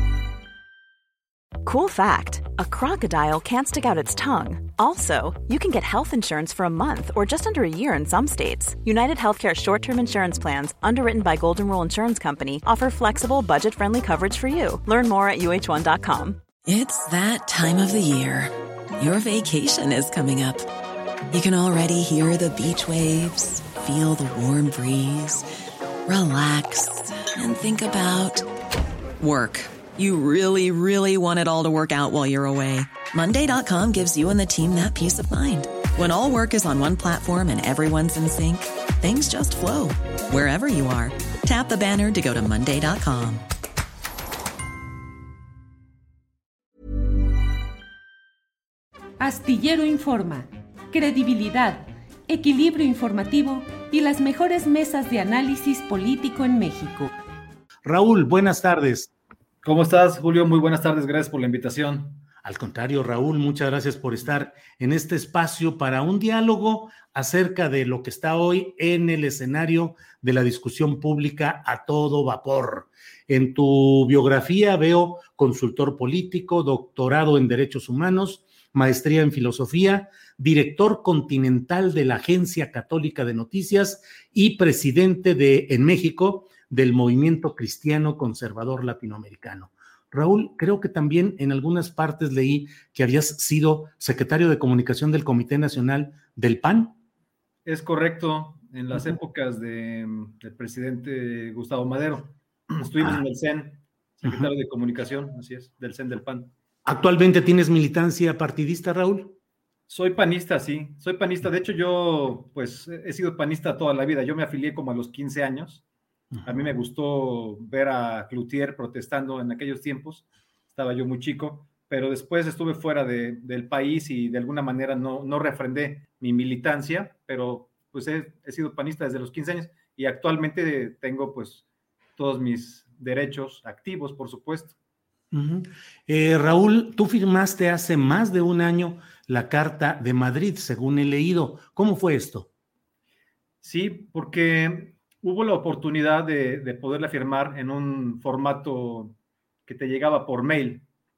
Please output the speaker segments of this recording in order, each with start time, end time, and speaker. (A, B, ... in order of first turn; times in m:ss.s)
0:01.6-0:16.4 A
0:16.6-0:20.6 B
0:21.3-0:25.4 B
0:26.1-0:28.4 B
0:29.2-0:43.4 B
0:49.2-0:57.1 C
0:57.8-0:59.1 D
0:59.6-1:02.2 E
1:02.4-1:37.0 D
1:37.6-1:46.5 E
1:44.2-1:44.5 D
1:46.8-1:49.4 D
1:49.9-1:55.8 E
1:56.3-1:56.7 D
1:56.4-2:11.6 E
2:12.2-2:14.8 E
2:15.3-2:22.5 D
2:23.6-2:29.1 E
2:29.6-2:30.8 E